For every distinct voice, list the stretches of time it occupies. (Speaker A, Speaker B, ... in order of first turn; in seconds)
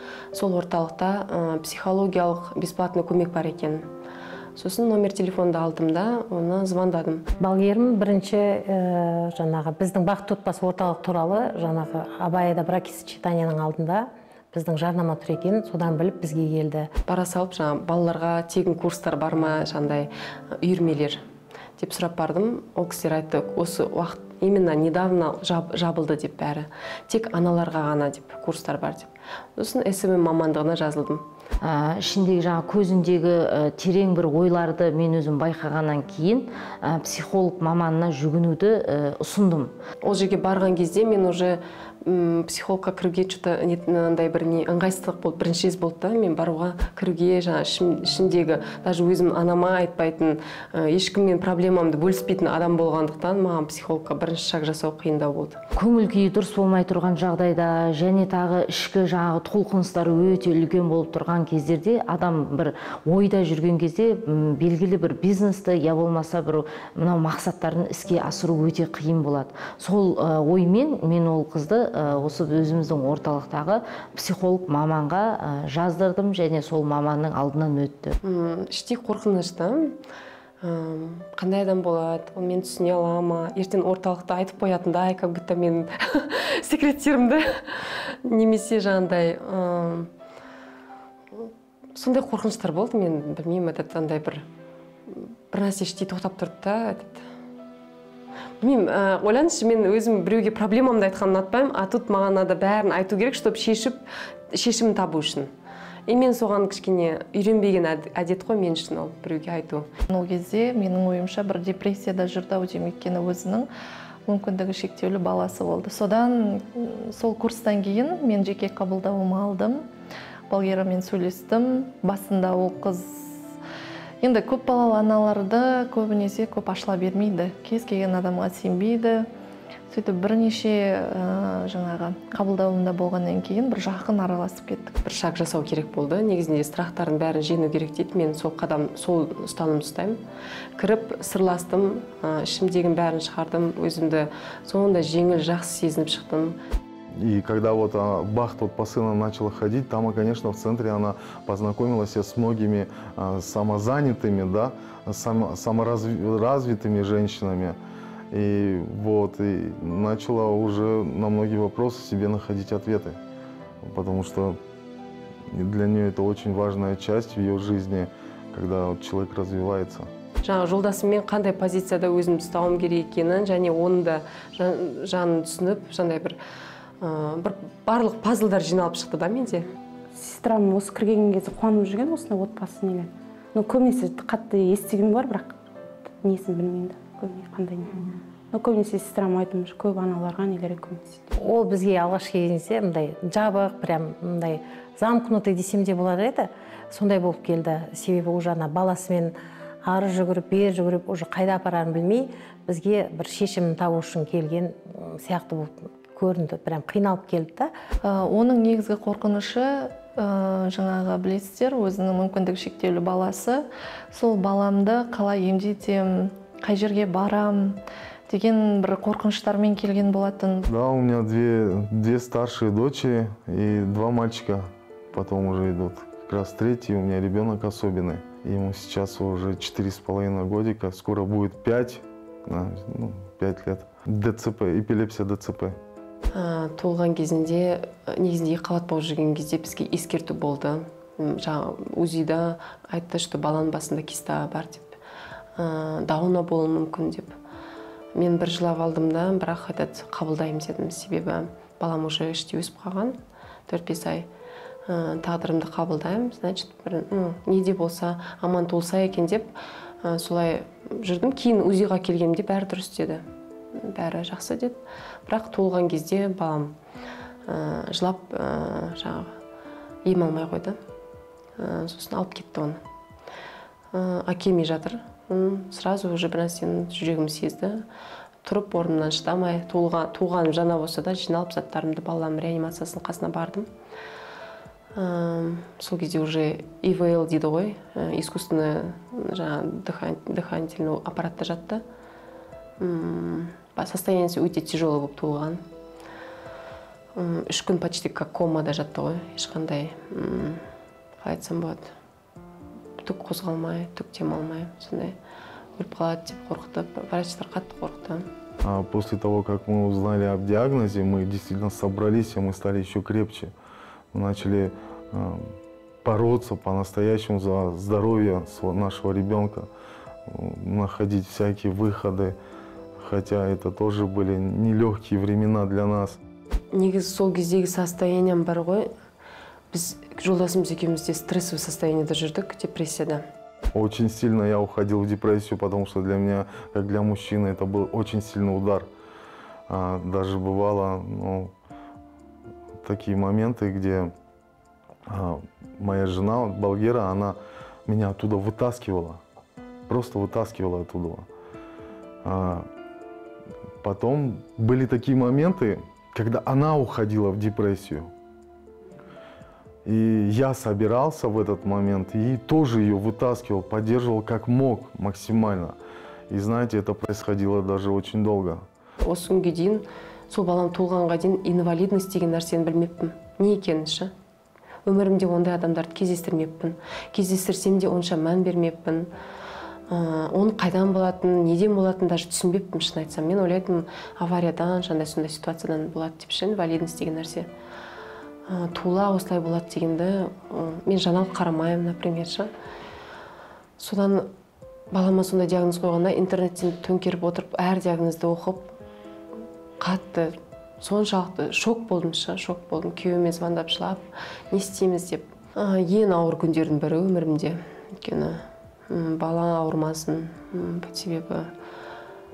Speaker A: 0.3-3.9, 4.6-7.3, 17.1-21.2, 21.8-31.3, 40.0-55.6, 78.2-80.0, 80.6-90.1, 91.3-94.4, 95.1-97.3, 98.6-104.0, 104.5-105.5, 106.1-109.9, 135.1-140.2, 140.8-146.6, 170.4-176.4, 177.0-179.7, 236.3-245.0, 245.6-247.3, 248.2-253.2, 253.7-254.3, 254.9-263.2, 263.8-266.8, 267.5-269.4, 270.1-270.8, 271.6-272.8, 273.9-277.8, 278.4-283.7, 284.9-291.8, 292.8-295.6, 297.1-300.7, 301.2-301.9, 303.0-305.2, 305.8-308.3, 326.7-328.9, 329.7-333.2, 369.0-374.1, 374.9-379.1, 379.9-387.5, 388.5-392.5, 393.8-394.3, 394.9-398.7, 399.8-411.5
Speaker B: 7.4-16.9, 191.3-207.7
Speaker C: 31.6-39.8, 55.8-78.2
Speaker D: 110.1-113.7, 114.3-119.8, 120.5-123.4, 124.2-129.3, 129.9-135.0, 208.0-220.7
Speaker E: 147.1-157.8, 158.3-163.2, 163.8-164.6, 165.5-170.1, 220.7-235.8, 308.6-313.5, 314.1-319.7, 320.3-322.4, 323.0-326.2, 333.7-338.9, 339.7-341.5, 342.8-344.1, 345.1-349.2, 349.9-351.3, 352.2-352.7, 353.8-358.1, 359.9-365.8, 366.3-368.7
Speaker F: 180.1-185.6, 186.2-191.3